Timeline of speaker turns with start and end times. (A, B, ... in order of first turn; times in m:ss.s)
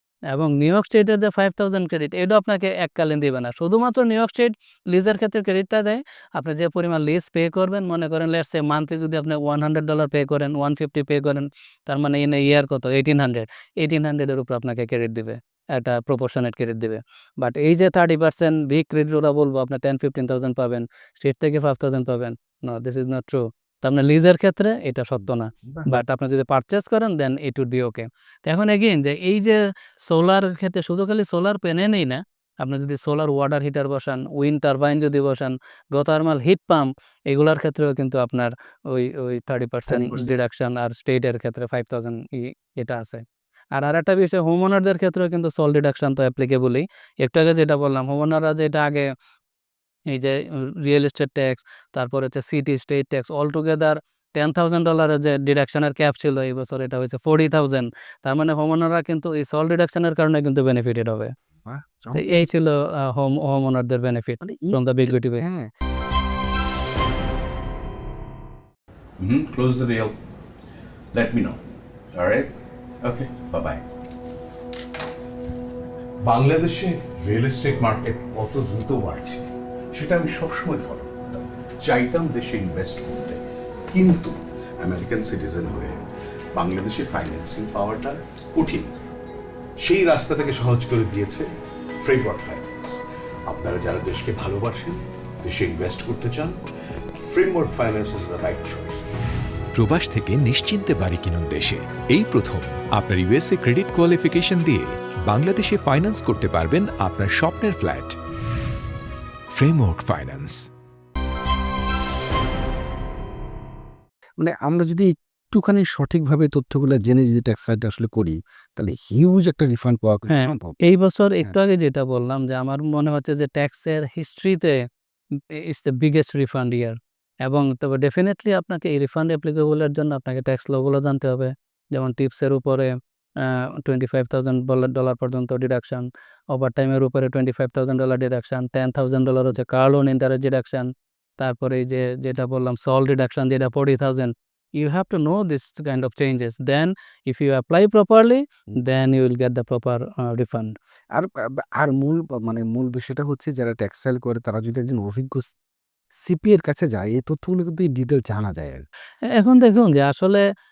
0:00.3-0:43.2 A
0:25.5-0:25.9 B
0:39.9-0:40.3 B
0:43.7-0:49.1 A
0:50.1-1:01.3 A
1:01.6-1:02.4 B
1:02.1-1:05.4 A
1:04.4-1:05.7 B
1:09.2-1:10.1 C
1:11.1-1:11.6 C
1:12.1-1:12.5 C
1:13.0-1:13.8 C
1:16.2-1:26.0 C
1:26.6-1:28.9 C
1:29.8-1:31.5 C
1:32.0-1:36.6 C
1:37.2-1:39.1 C
1:39.7-1:48.2 D
1:49.5-1:50.7 D
1:54.4-2:00.8 B
2:00.3-2:04.8 A
2:05.5-2:30.7 A
2:31.1-2:35.5 B
2:36.2-2:38.8 B
2:39.3-2:40.4 A